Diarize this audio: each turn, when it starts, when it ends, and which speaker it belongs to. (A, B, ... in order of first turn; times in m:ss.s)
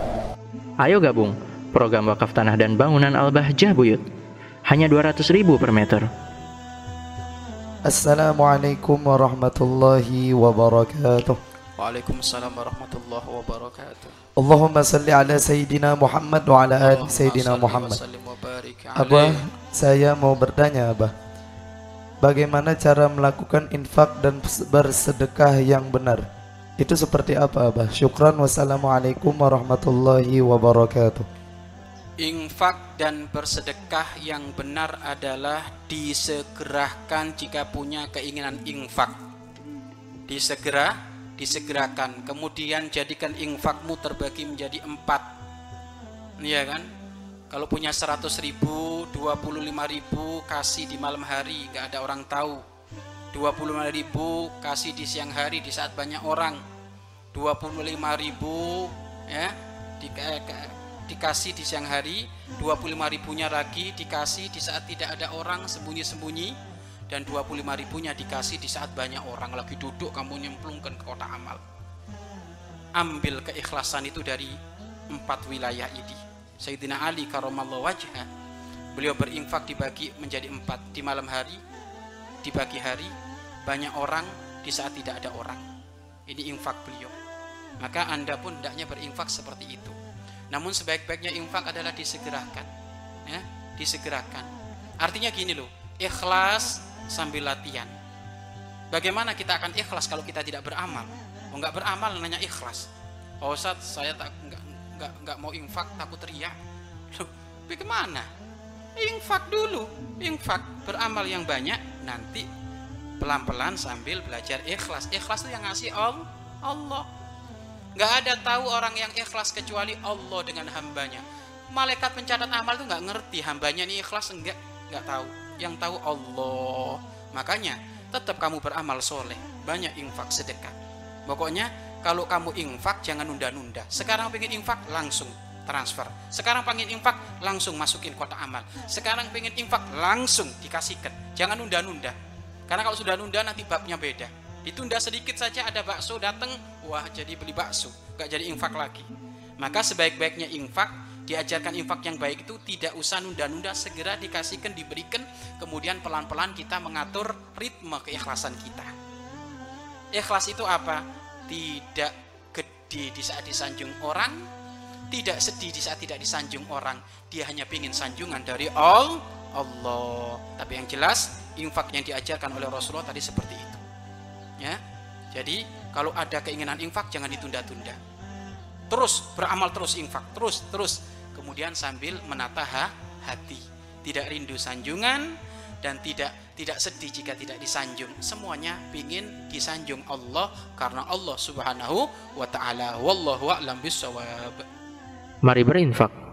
0:00.8-0:04.0 A
0:04.7-0:06.1 A
0:07.9-0:11.4 B
0:11.8-0:14.2 C
0:14.4-0:18.0 B
0:16.8-0:19.5 C
0:19.0-0:21.1 B
0:22.2-0:26.3 B
0:26.8-0:31.3 B
0:32.2-0:39.2 C
0:40.3-0:45.2 C
0:46.4-0:46.9 C
0:47.5-0:52.6 C
0:53.3-0:56.6 C
0:57.3-1:06.6 C
1:07.1-1:11.6 C
1:13.0-1:14.6 C
1:15.1-1:18.3 C
1:19.0-1:21.6 C
1:22.4-1:23.1 C
1:23.7-1:25.7 C
1:26.3-1:27.2 C
1:27.8-1:30.0 C
1:30.5-1:32.7 C
1:33.3-1:34.5 C
1:35.0-1:37.9 C
1:38.9-1:42.9 C
1:43.4-1:46.6 C
1:47.1-1:48.3 C
1:49.0-1:52.5 C
1:53.2-1:57.1 C
1:58.0-2:10.7 C
2:11.3-2:22.2 C
2:22.7-2:38.9 C
2:40.1-2:44.4 C
2:45.1-2:53.8 C
2:55.3-2:58.0 C
2:58.9-3:14.6 C
3:15.4-3:16.1 A